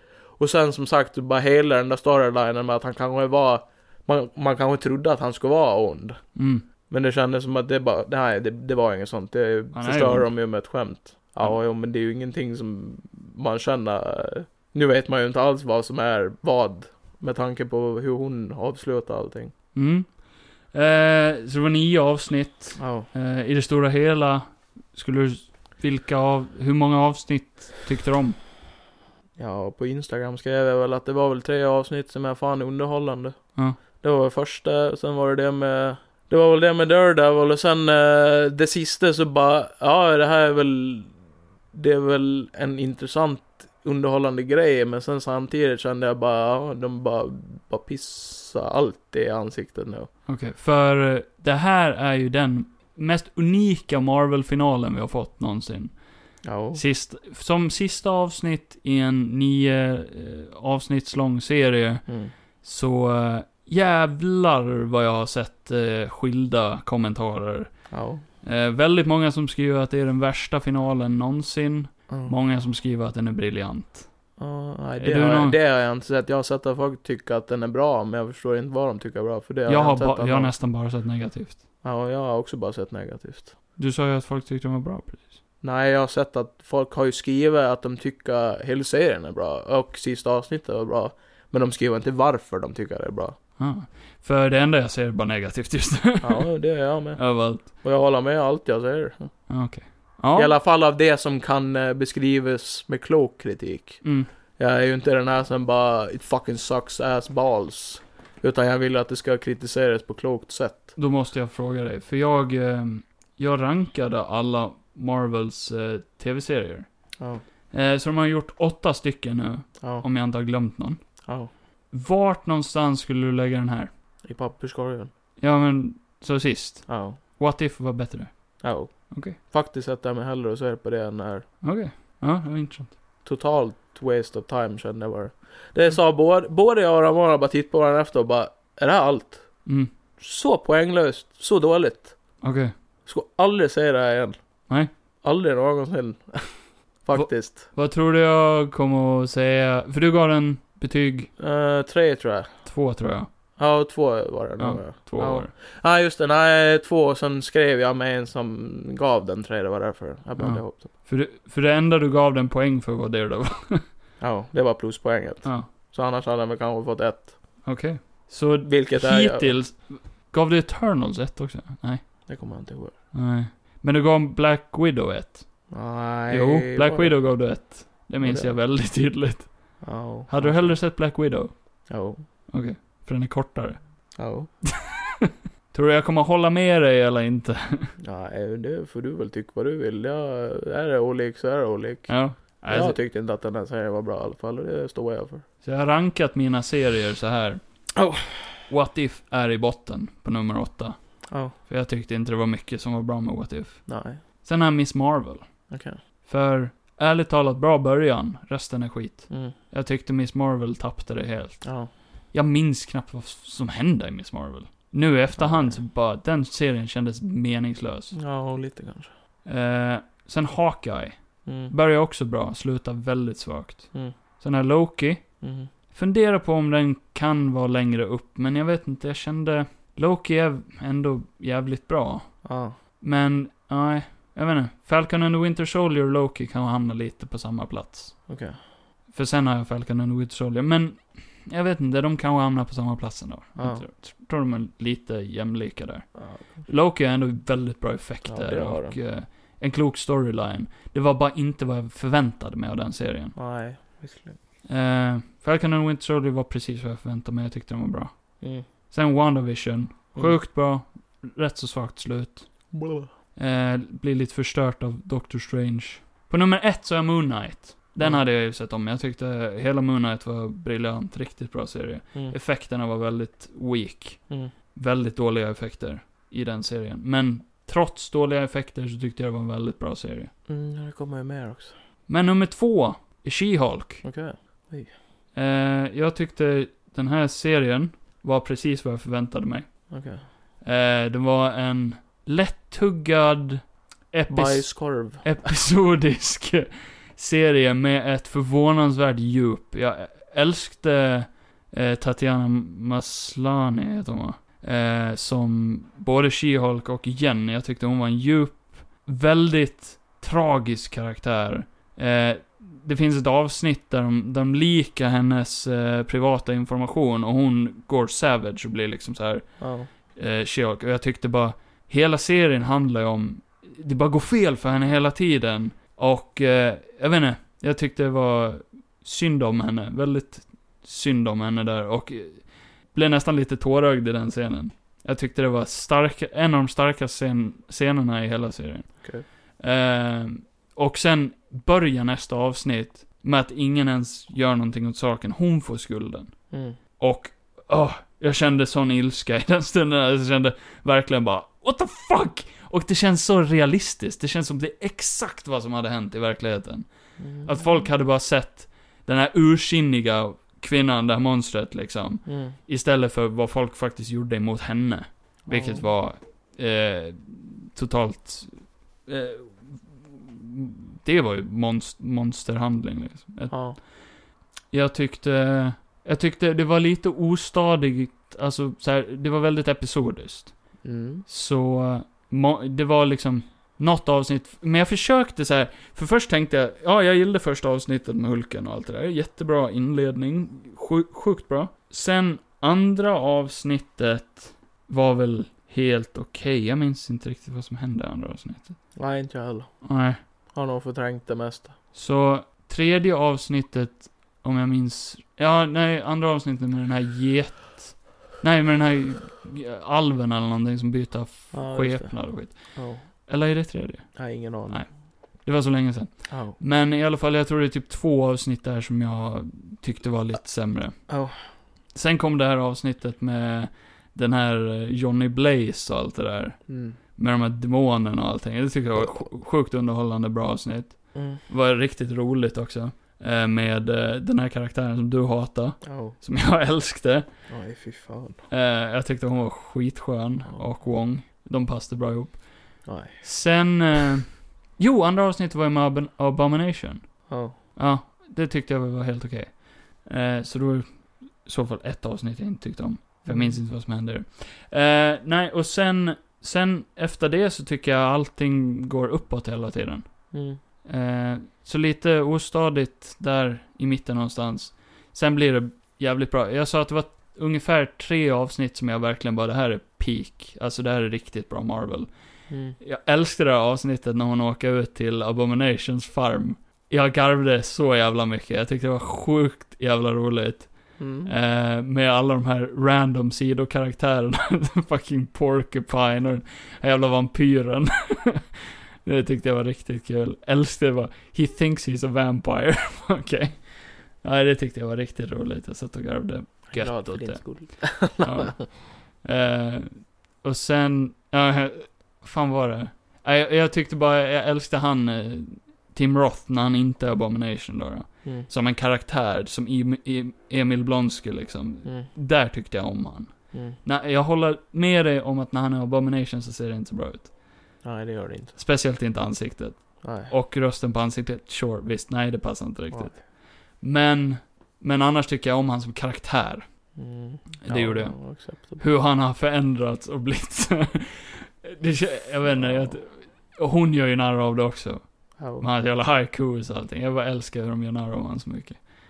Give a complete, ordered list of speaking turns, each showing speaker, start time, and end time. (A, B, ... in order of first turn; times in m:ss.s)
0:00.4-0:06.2 A
0:06.4-0:06.6 B
0:06.9-0:19.5 A
0:09.7-0:10.3 B
0:19.7-0:28.4 B
0:22.8-0:23.1 A
0:29.4-0:33.4 A
0:33.9-0:41.1 A
0:41.7-0:50.1 A
0:50.3-0:56.0 B
0:56.4-0:56.8 A
0:56.7-1:02.1 B
1:02.1-1:02.3 A
1:02.6-1:14.1 B
1:07.9-1:08.2 A
1:12.1-1:12.3 A
1:14.4-1:20.5 A
1:15.0-1:15.6 B
1:19.6-1:21.6 B
1:21.8-1:23.5 A
1:23.8-1:25.4 B
1:25.6-1:33.4 A
1:33.6-1:36.5 B
1:36.2-1:39.3 A
1:37.2-1:37.7 B
1:39.5-1:40.5 B
1:40.4-1:44.0 A
1:44.0-1:44.3 B
1:44.6-1:50.9 A
1:51.0-1:56.9 B
1:57.7-2:01.0 B
2:01.9-2:03.9 B
2:04.2-2:05.1 A
2:05.4-2:09.4 B
2:06.9-2:07.2 A
2:08.6-2:11.5 A
2:11.6-2:13.0 B
2:13.2-2:19.5 A
2:19.6-2:19.9 B
2:20.2-2:22.2 A
2:22.4-2:22.7 B
2:23.0-2:24.4 A
2:25.2-2:27.7 A
2:27.1-2:31.3 B
2:31.4-2:32.5 A
2:32.6-2:33.3 B
2:33.6-2:40.9 A
2:34.6-2:35.5 B
2:40.4-2:43.8 B
2:44.2-2:47.4 A
2:47.6-2:52.1 B
2:48.6-2:49.6 A
2:52.3-2:52.9 A
2:53.1-2:55.7 B
2:55.7-2:57.2 A
2:56.3-3:01.9 B
2:58.2-2:58.6 A
2:59.8-3:00.8 A
3:01.9-3:02.2 A
3:02.5-3:04.1 B
3:04.2-3:04.5 A
3:05.7-3:07.9 B
3:08.0-3:15.4 A
3:12.1-3:13.0 B
3:15.6-3:17.6 B
3:18.0-3:18.6 A
3:18.7-3:21.1 B
3:21.6-3:25.5 B
3:23.9-3:24.2 A
3:25.7-3:26.0 A
3:26.2-3:31.7 B
3:31.6-3:31.9 A
3:32.3-3:38.2 B
3:35.4-3:35.8 A
3:38.1-3:39.1 A
3:39.4-3:45.3 B
3:41.4-3:41.7 A
3:45.4-3:45.7 A
3:45.9-3:52.4 B
3:52.4-3:52.8 A
3:53.0-3:58.3 B
3:58.3-3:58.6 A
3:59.1-4:13.4 B
4:03.6-4:03.8 A
4:06.2-4:06.6 A
4:08.2-4:09.0 A
4:13.4-4:14.4 A
4:14.7-4:22.7 B
4:22.7-4:23.1 A
4:23.4-4:40.3 B
4:40.5-4:41.7 A
4:42.1-4:44.0 B
4:44.0-4:44.9 A
4:45.3-4:49.9 B
4:49.9-4:50.2 A
4:50.6-5:46.4 B
4:54.3-4:55.4 A
5:19.6-5:19.9 A
5:46.5-5:46.8 A
5:47.0-6:13.8 B
5:57.2-5:57.9 A
6:02.2-6:02.6 A
6:05.4-6:05.9 A
6:13.5-6:13.8 A
6:14.7-6:20.5 B
6:20.8-6:21.2 A
6:21.2-6:38.8 B
6:39.0-6:39.8 A
6:39.8-6:40.2 B
6:40.5-6:41.7 A
6:41.9-7:01.1 B
6:51.5-6:53.0 A
6:54.2-6:54.9 A
6:56.3-6:56.6 A
7:01.1-7:01.4 A
7:01.9-7:17.3 B
7:06.7-7:07.0 A
7:09.0-7:09.2 A
7:11.1-7:11.4 A
7:15.8-7:16.2 A
7:17.5-7:18.4 A
7:18.5-7:40.3 B
7:20.5-7:20.7 A
7:22.8-7:23.2 A
7:27.3-7:27.5 A
7:33.2-7:33.6 A
7:40.3-7:40.6 A
7:40.8-7:52.1 B
7:52.5-7:52.8 A
7:52.8-8:08.5 B
8:01.0-8:01.3 A
8:09.0-8:37.3 B
8:16.7-8:18.6 A
8:28.2-8:28.5 A
8:33.5-8:33.8 A
8:37.8-8:38.6 A
8:38.5-8:46.7 B
8:40.0-8:40.3 A
8:42.9-8:43.2 A
8:46.9-8:48.8 A
8:47.6-8:58.8 B
8:52.5-8:53.0 A
8:55.4-8:55.7 A